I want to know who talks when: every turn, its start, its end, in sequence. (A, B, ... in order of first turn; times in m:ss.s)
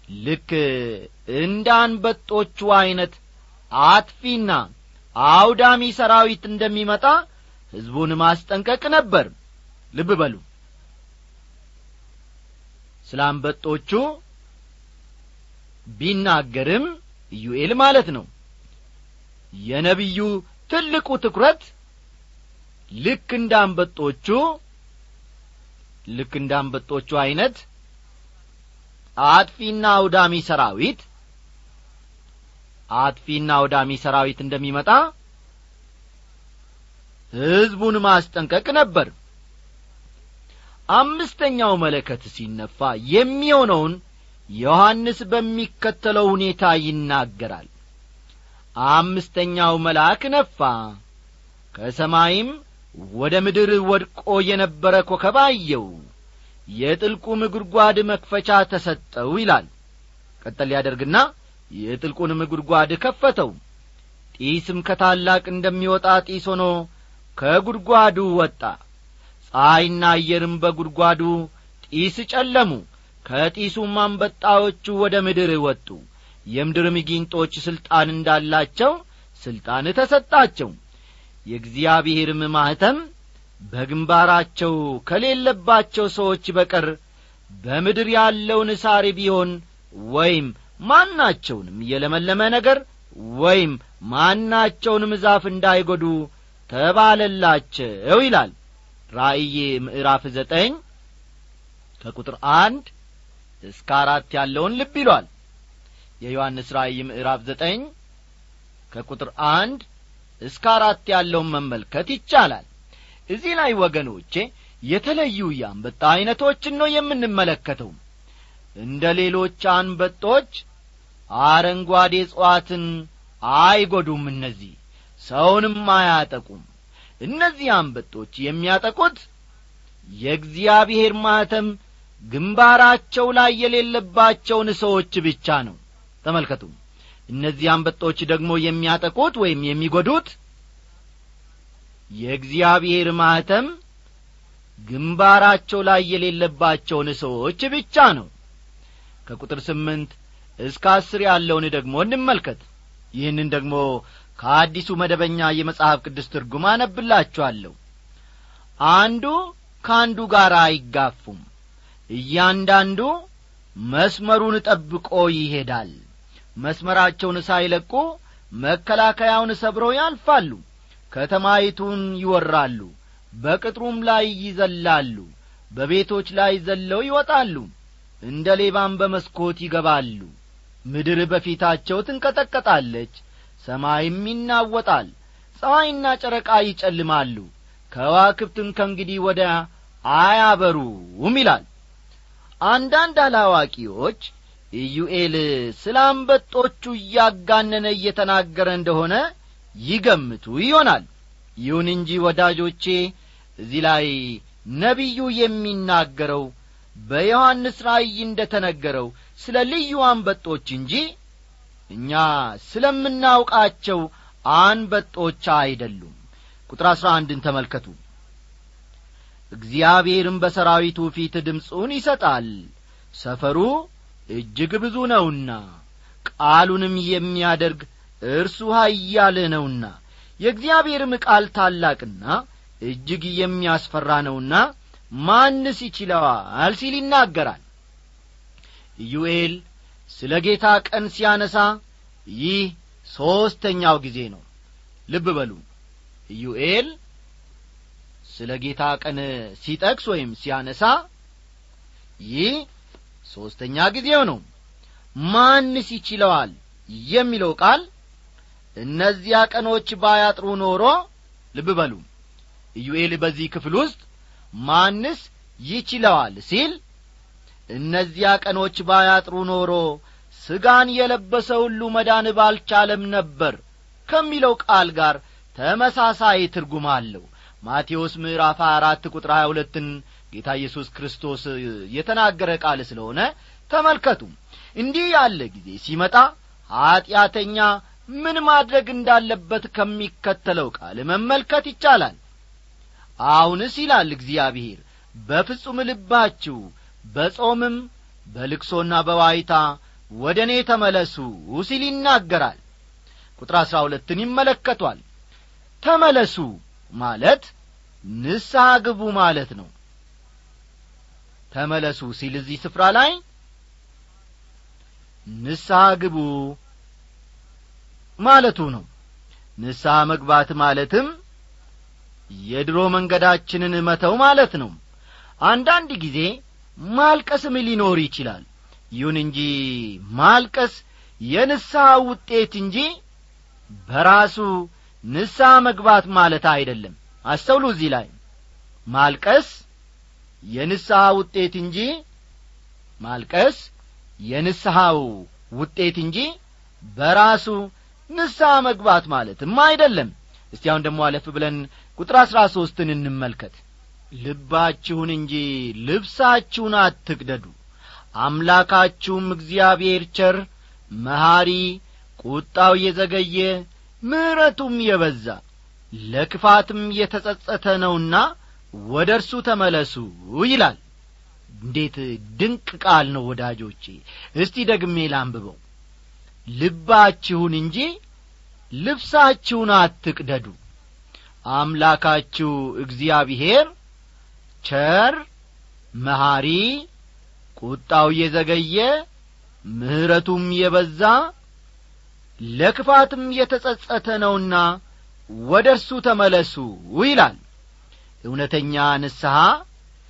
0:00.2-0:03.2 A
0:03.8-0:04.7 A
0:05.2-0:07.2 A
0:07.8-0:09.3 A
0:09.9-0:10.4 A
0:13.0-0:14.2 A
0:16.0-0:18.3 A
0:19.7-0:21.7 A
0:23.0-0:24.6 A
0:26.1-0:27.6 A
0:29.2-0:31.0 A
0:33.0-0:35.1 A
0:37.4-0:39.1 A
0:40.9-0:44.0 A
0:44.6-0:47.7 A
0:48.8-0:51.0 A
0:51.7-0:56.0 A
0:56.8-0:59.7 A
1:00.4-1:03.6 A
1:04.4-1:08.8 A
1:09.5-1:16.0 A
1:16.5-1:20.8 A
1:21.5-1:23.0 A
1:23.7-1:26.9 A
1:27.6-1:38.5 A
1:39.1-1:40.8 A
1:42.0-1:42.9 A
1:43.6-1:45.3 A
1:46.2-1:47.9 A
1:48.9-1:49.8 A
1:50.4-1:52.7 A
1:53.3-1:58.0 A
1:58.8-2:00.6 A
2:01.4-2:06.6 A
2:07.2-2:09.2 A
2:10.2-2:11.7 A
2:12.3-2:16.7 A
2:17.3-2:20.4 A
2:22.2-2:23.7 A
2:24.9-2:28.3 A
2:29.2-2:32.6 A
2:33.2-2:37.8 A
2:38.9-2:41.4 A
2:42.1-2:43.1 A
2:43.8-2:46.0 A
2:46.6-2:57.7 A
2:58.2-3:00.3 A
3:00.9-3:11.7 A
3:12.6-3:19.2 A
3:19.8-3:21.1 A
3:21.6-3:23.1 A
3:23.6-3:26.5 A
3:27.1-3:31.0 A
3:31.9-3:36.2 A
3:36.7-3:38.0 A
3:39.6-3:45.7 A
3:46.4-3:57.6 A
3:59.0-4:04.4 A
4:05.1-4:05.6 A
4:06.3-4:06.9 A
4:08.2-4:11.0 A
4:12.2-4:12.7 A
4:13.2-4:14.4 A
4:15.2-4:17.8 A
4:18.8-4:22.0 A
4:22.8-4:24.0 A
4:24.6-4:26.8 A
4:27.7-4:52.2 A
4:53.2-5:02.6 A
5:03.4-5:05.0 A
5:05.8-5:07.5 A
5:08.0-5:09.7 A
5:11.5-5:13.2 A
5:15.3-5:16.6 A
5:18.2-5:18.9 A
5:19.6-5:21.1 A
5:22.3-5:24.8 A
5:25.4-5:32.9 A
5:33.8-5:38.1 A
5:38.9-5:39.6 A
5:40.5-5:42.0 A
5:43.0-5:43.7 A
5:44.3-5:46.3 A
5:46.9-5:53.6 A
5:54.2-5:57.5 A
5:58.2-6:00.5 A
6:01.0-6:05.4 A
6:06.0-6:10.8 A
6:11.6-6:15.6 A
6:16.6-6:17.9 A
6:18.8-6:20.6 A
6:21.5-6:23.7 A
6:24.6-6:25.2 A
6:26.0-6:26.8 A
6:27.6-6:29.0 A
6:29.7-6:31.3 A
6:32.4-6:34.8 A
6:35.3-6:37.4 A
6:38.2-6:39.6 A